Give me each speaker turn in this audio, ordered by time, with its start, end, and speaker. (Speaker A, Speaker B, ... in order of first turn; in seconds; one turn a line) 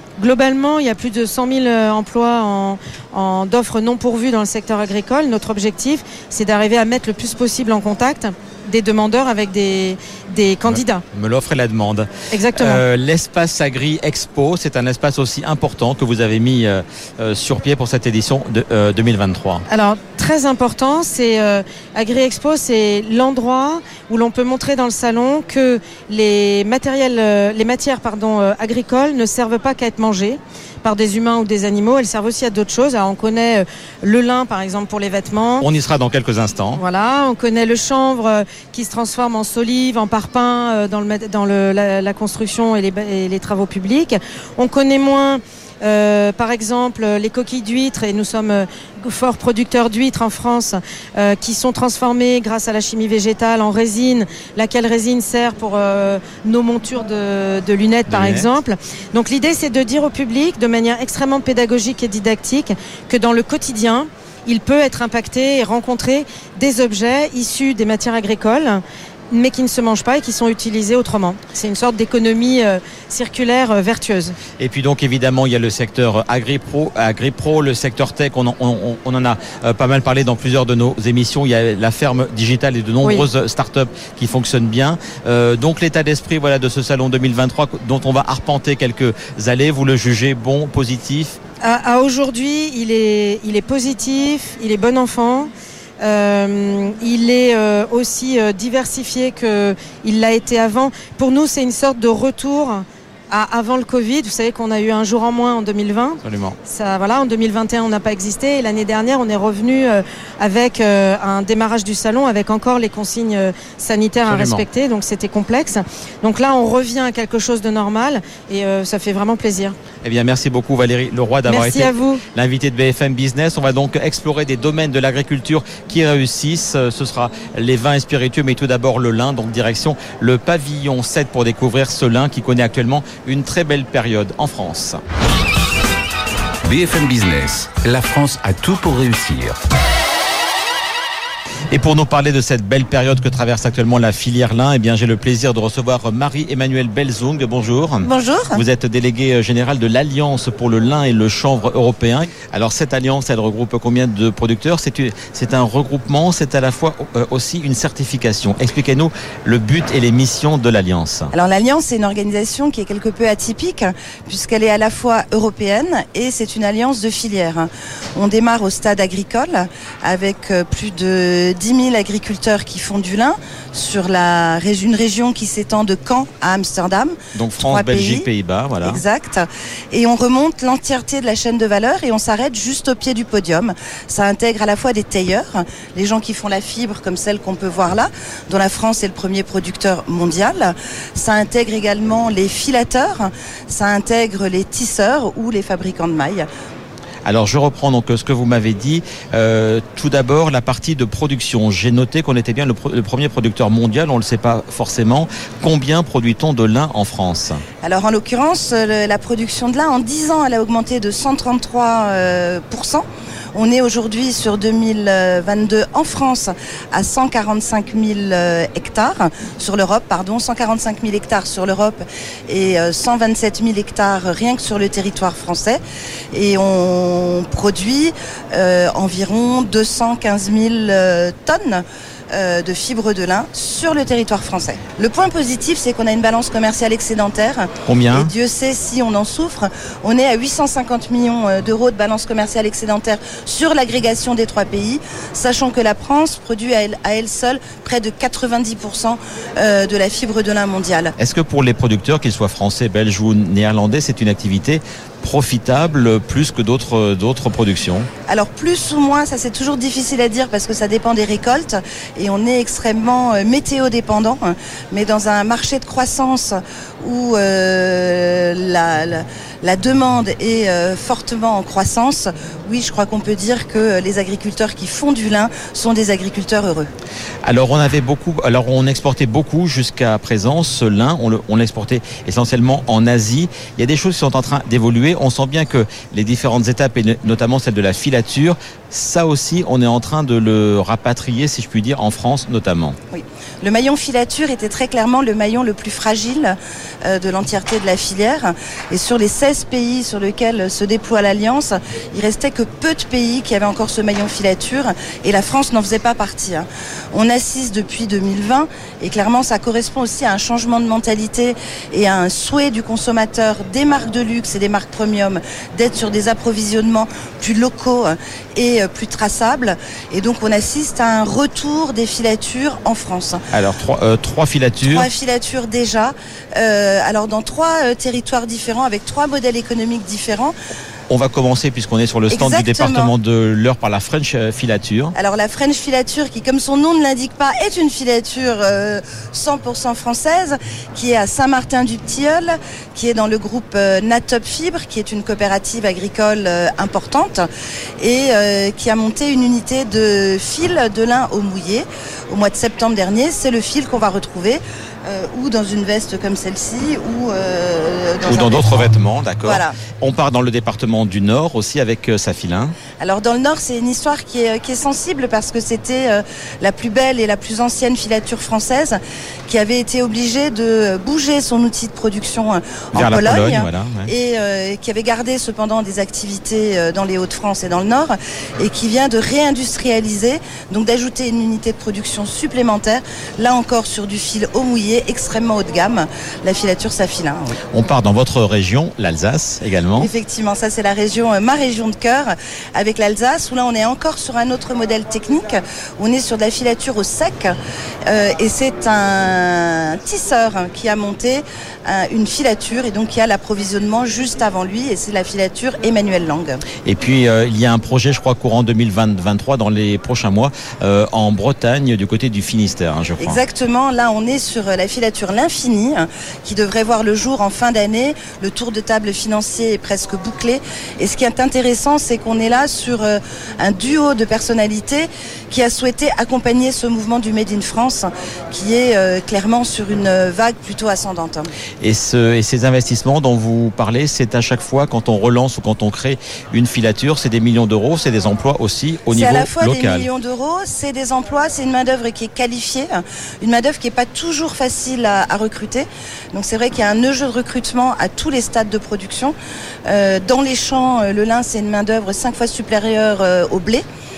Speaker A: 0.2-11.0
Speaker B: 10.7-19.6
Speaker A: 12.3-12.8
Speaker A: 19.7-35.7
Speaker B: 35.6-36.8
Speaker A: 36.8-74.4
Speaker B: 58.1-58.5
Speaker B: 74.6-91.4
Speaker A: 91.6-95.5
Speaker A: 96.0-119.8
Speaker B: 106.2-106.6
Speaker B: 114.3-114.6
Speaker B: 120.0-135.0
Speaker A: 121.5-122.2
Speaker C: 136.6-139.6
Speaker B: 141.7-161.3
Speaker D: 148.0-148.6
Speaker D: 161.3-178.3
Speaker B: 177.3-179.0
Speaker D: 178.8-196.4
Speaker B: 197.2-207.6
Speaker D: 207.8-225.8
Speaker D: 226.3-251.1
Speaker B: 237.8-238.3
Speaker B: 251.2-258.1
Speaker D: 258.3-276.9
Speaker B: 277.4-292.9
Speaker D: 293.1-323.4
Speaker B: 323.5-325.1
Speaker D: 324.8-330.5
Speaker B: 331.1-335.1
Speaker D: 332.3-333.1
Speaker D: 335.1-347.4
Speaker D: 348.0-358.9
Speaker B: 358.3-362.8
Speaker D: 359.4-359.8
Speaker D: 363.0-387.6
Speaker B: 372.9-374.1
Speaker B: 387.7-390.1
Speaker D: 390.0-397.6
Speaker D: 398.1-406.6
Speaker B: 406.8-413.4
Speaker D: 413.2-431.5
Speaker B: 431.8-440.1
Speaker D: 439.1-449.3
Speaker D: 449.9-453.8